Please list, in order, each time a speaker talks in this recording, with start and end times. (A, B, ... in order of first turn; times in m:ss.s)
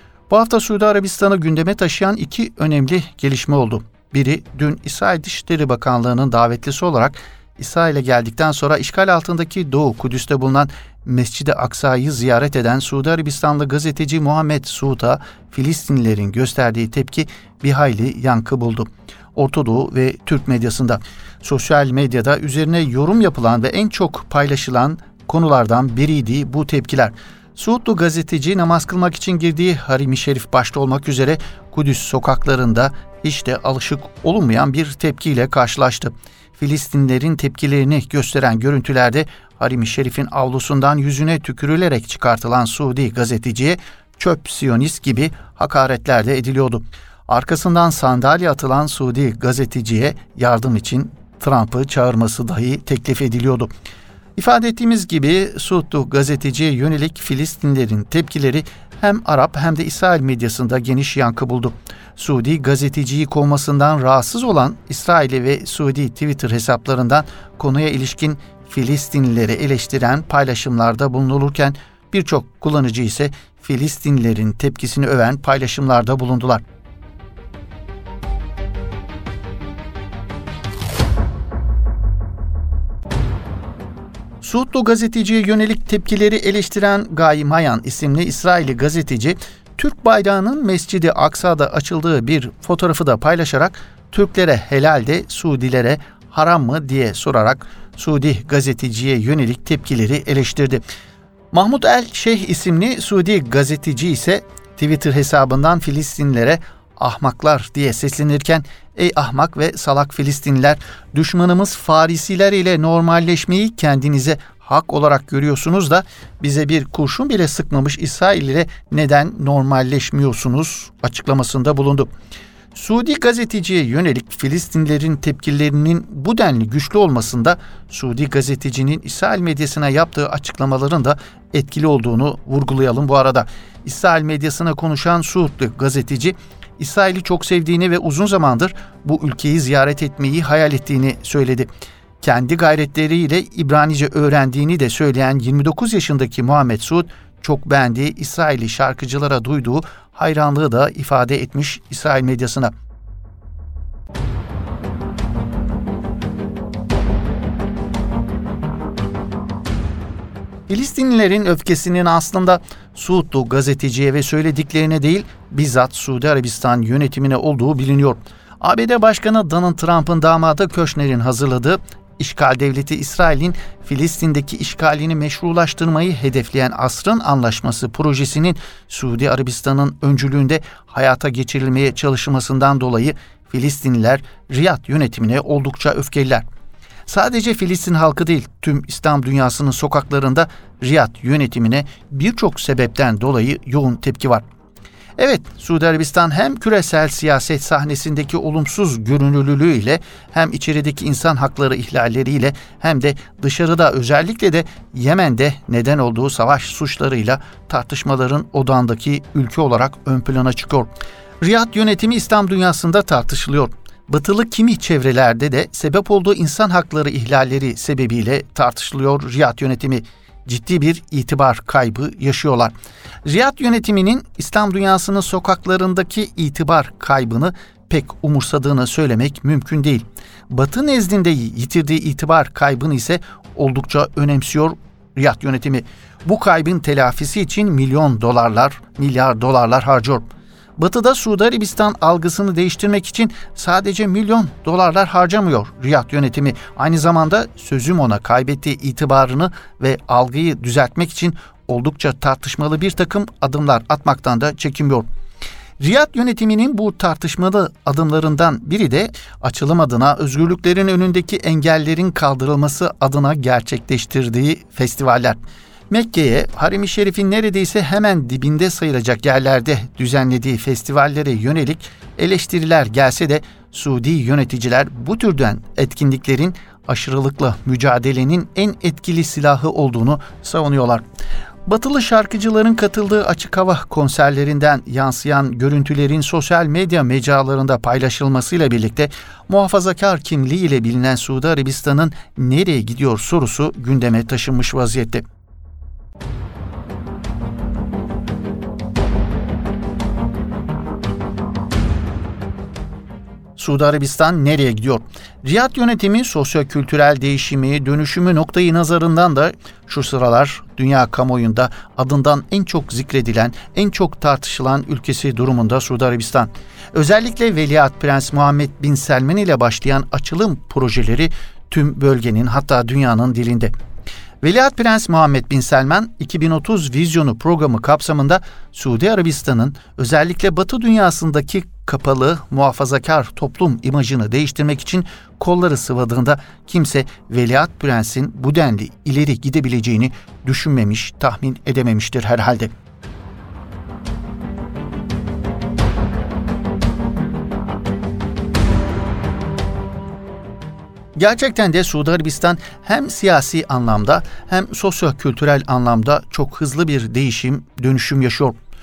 0:00.3-0:53.7 A
0:54.4-1:16.6 A
1:24.4-1:40.8 A
1:41.5-2:02.1 A
2:02.7-2:21.7 A
2:22.2-2:32.7 A
2:40.7-3:06.4 A
3:07.1-3:14.4 A
3:15.2-3:30.9 A
3:31.4-3:42.7 A
3:43.2-4:00.2 A
4:00.8-4:15.1 A
4:15.8-4:25.4 A
4:25.9-4:41.0 A
4:41.7-4:55.2 A
5:03.6-5:23.7 A
5:24.4-5:42.7 A
5:51.2-5:58.6 A